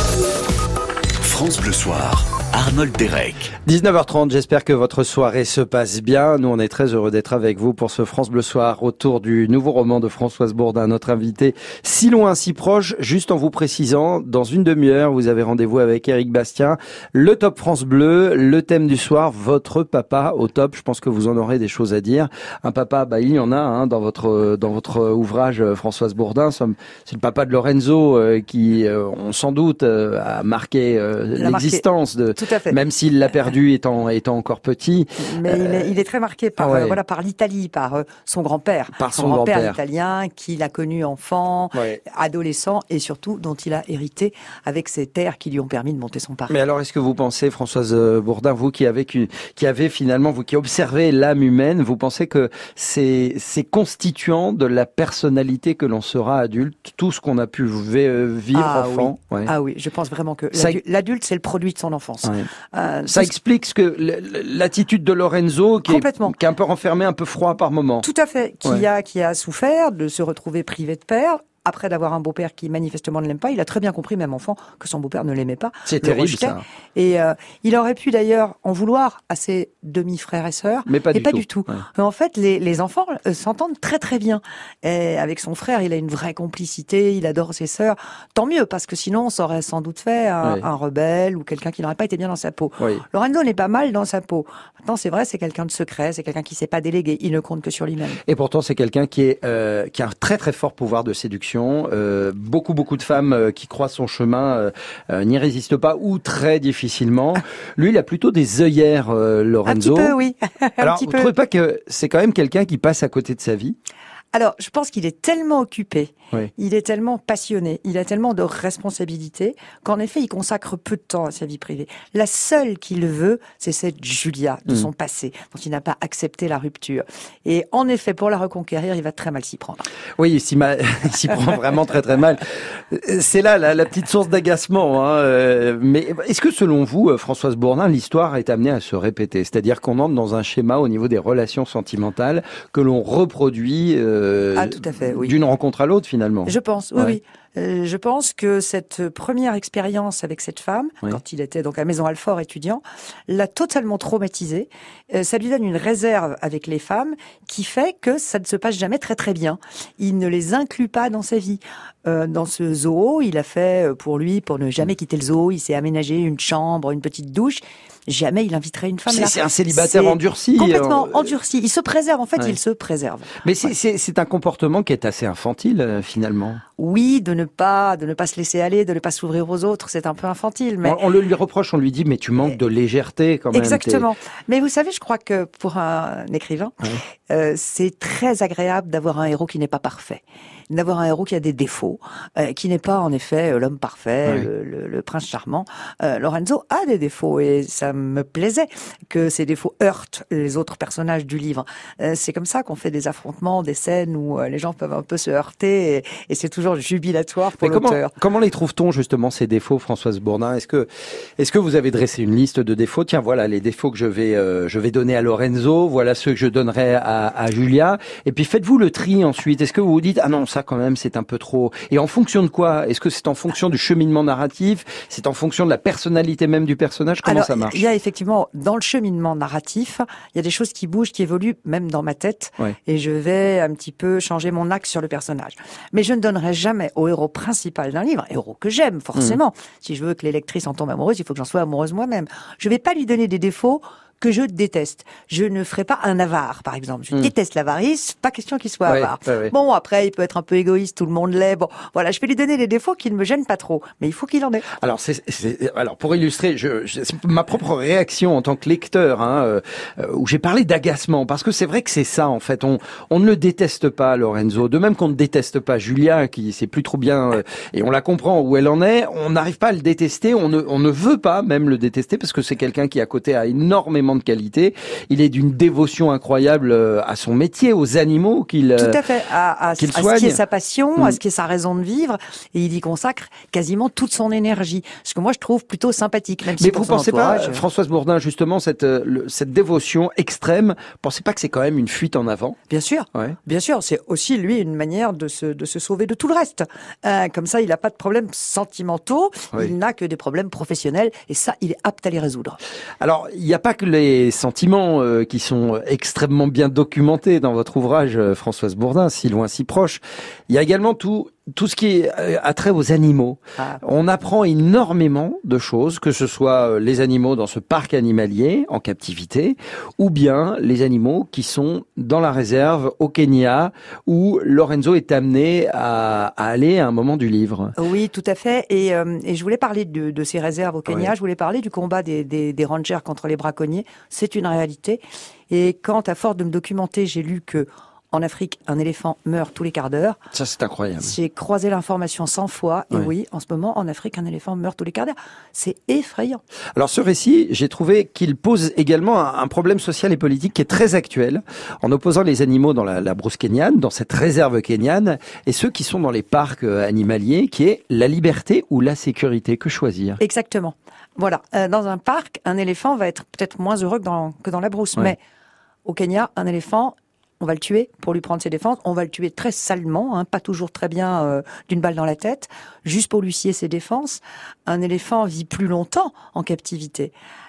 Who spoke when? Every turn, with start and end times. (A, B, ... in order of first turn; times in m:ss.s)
0:01.2-0:03.5 A
0:03.6-0:35.9 B
0:31.4-0:31.8 C
0:32.4-0:32.8 C
0:35.3-0:46.6 C
0:36.6-0:37.0 B
0:39.0-0:39.8 B
0:41.7-0:42.0 B
0:46.5-0:59.5 B
0:58.5-1:03.3 C
1:00.5-1:00.8 B
1:03.1-1:08.1 B
1:05.8-1:06.3 C
1:08.0-1:38.2 C
1:15.8-1:16.6 B
1:20.8-1:21.8 B
1:32.8-1:33.0 B
1:38.2-1:50.1 B
1:49.6-1:51.3 C
1:50.8-1:53.8 B
1:54.3-2:09.9 C
2:10.2-2:27.2 B
2:24.5-2:25.3 C
2:26.4-2:53.4 C
2:49.1-2:51.3 B
2:53.4-2:56.6 B
2:56.8-3:01.0 C
3:00.8-3:04.1 B
3:03.5-3:28.1 C
3:27.6-3:47.8 B
3:47.2-4:14.7 C
4:08.8-4:09.5 B
4:14.7-4:39.0 B
4:38.8-4:47.6 C
4:39.8-4:40.4 B
4:46.6-4:52.6 B
4:52.7-5:02.6 C
5:03.0-5:27.7 B
5:27.8-5:40.2 C
5:30.9-5:31.1 B
5:40.3-5:41.1 B
5:41.0-5:46.4 C
5:46.7-6:00.2 B
6:00.2-6:05.2 C
6:05.8-6:17.1 C